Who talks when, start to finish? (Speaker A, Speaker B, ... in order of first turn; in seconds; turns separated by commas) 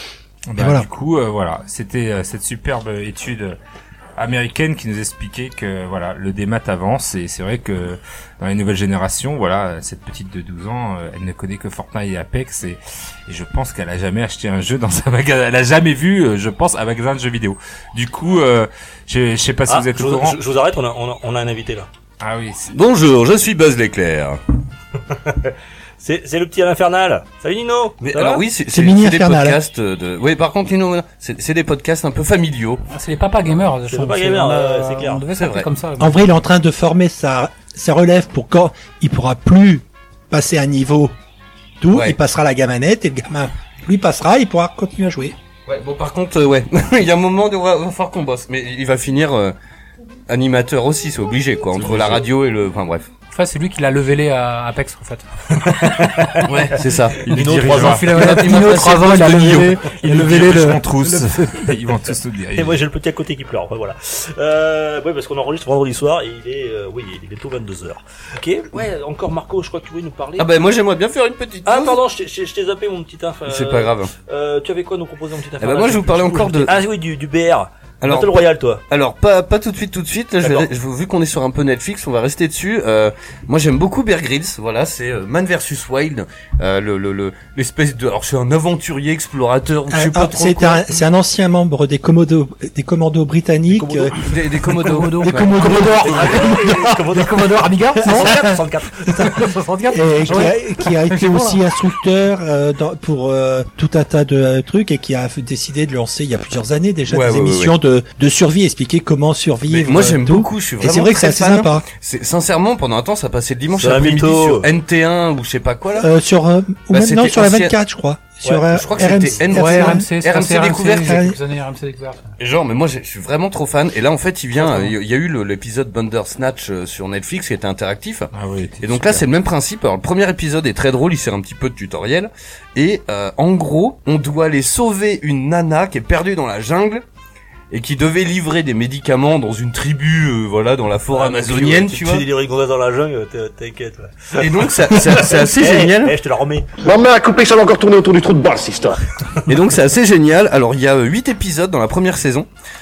Speaker A: 0.5-3.6, Speaker B: 0.6-0.9, Speaker A: 4.2-20.4, Speaker C: 19.7-21.9, Speaker A: 22.2-22.7, Speaker D: 22.7-24.4, Speaker C: 25.3-28.4, Speaker D: 28.0-32.8, Speaker B: 28.7-29.6, Speaker E: 32.9-36.1, Speaker C: 33.8-35.2, Speaker D: 35.3-35.7, Speaker B: 36.0-41.1, Speaker B: 41.8-45.4, Speaker D: 45.7-49.5, Speaker D: 50.3-53.1, Speaker E: 53.3-56.4, Speaker C: 55.5-56.4, Speaker D: 56.5-57.2, Speaker C: 57.2-58.5, Speaker A: 57.2-58.3, Speaker E: 57.6-61.8, Speaker D: 58.1-59.8, Speaker A: 59.8-62.8, Speaker C: 62.5-70.5, Speaker D: 70.4-72.0, Speaker C: 71.6-78.8, Speaker D: 73.5-74.1, Speaker D: 75.6-76.8, Speaker D: 78.0-90.8, Speaker C: 80.4-80.7, Speaker B: 89.9-94.1, Speaker C: 93.7-94.1, Speaker D: 94.1-95.5, Speaker E: 94.7-98.6, Speaker B: 95.2-96.6, Speaker C: 95.8-99.4, Speaker B: 98.0-98.5, Speaker E: 99.1-101.6, Speaker B: 99.9-111.9, Speaker D: 107.1-107.7, Speaker D: 109.7-116.1, Speaker C: 113.8-114.7, Speaker B: 115.9-120.1, Speaker D: 116.9-117.7, Speaker C: 118.4-119.5, Speaker D: 118.7-121.2, Speaker E: 119.5-122.3, Speaker B: 121.0-121.4, Speaker D: 122.4-128.3, Speaker A: 128.3-129.2, Speaker D: 128.8-137.0, Speaker D: 137.7-142.2, Speaker C: 141.1-146.7, Speaker D: 144.3-146.2, Speaker F: 146.8-149.0, Speaker D: 149.5-152.5